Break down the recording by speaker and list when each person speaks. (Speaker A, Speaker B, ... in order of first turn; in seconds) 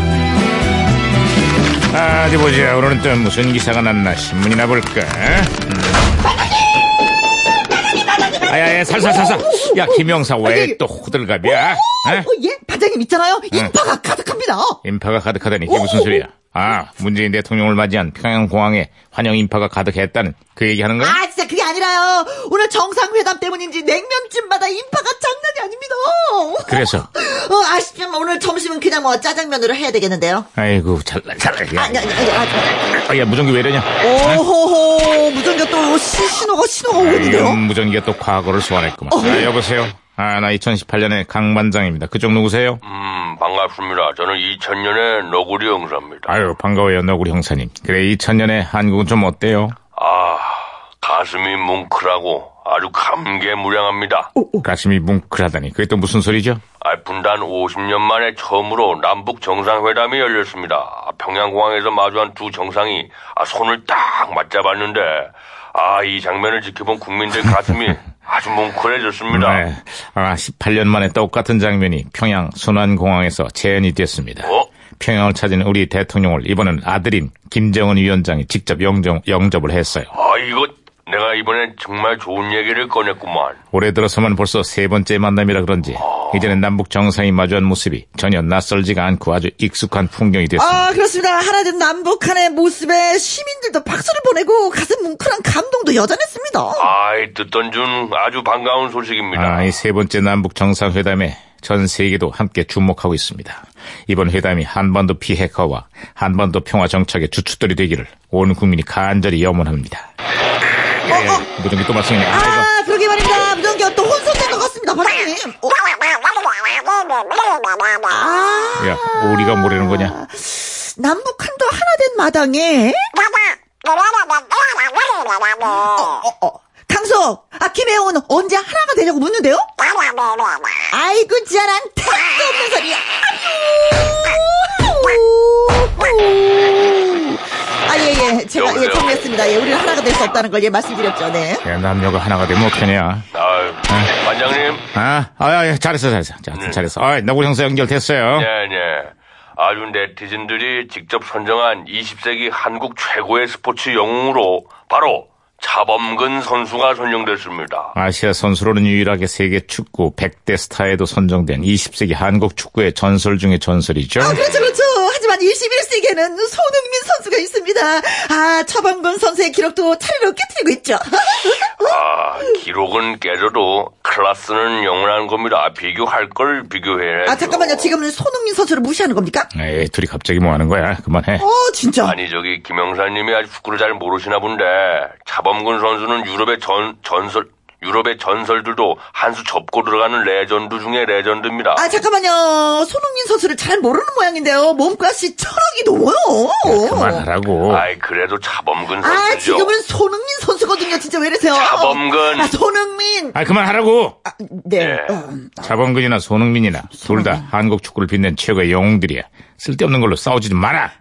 Speaker A: 1.9-6.0, 8.4-12.3, 14.8-21.2, 26.6-27.1, 30.6-32.3, 32.9-34.4, 37.0-42.8, 46.3-49.8, 54.6-56.6, 69.3-80.1, 83.7-90.8, 99.3-110.1, 111.1-112.7, 118.8-120.2, 141.6-143.2, 144.9-148.5, 157.9-164.4, 179.5-181.4, 196.6-197.9, 203.3-204.2, 205.6-210.9
Speaker B: 7.9-10.8, 11.4-14.8, 15.7-16.2, 21.0-30.5, 31.7-32.9, 34.0-37.6, 39.1-39.5, 54.4-54.6, 90.6-96.9, 111.1-111.5, 112.3-116.6, 118.0-123.1, 125.6-129.8, 130.9-141.6, 164.2-172.0, 177.2-179.5, 181.4-182.2, 191.7-197.3, 199.0-203.4, 204.2-205.5, 207.0-207.4
Speaker C: 42.8-46.4, 50.0-54.3, 56.8-69.6, 74.4-74.7, 80.1-83.6, 86.1-86.5, 96.7-99.8, 138.5-139.2, 143.3-144.8, 146.5-146.8, 148.3-157.9, 164.3-164.7, 171.8-177.9, 182.0-191.9, 197.7-199.7, 201.5-202.5, 204.8-205.2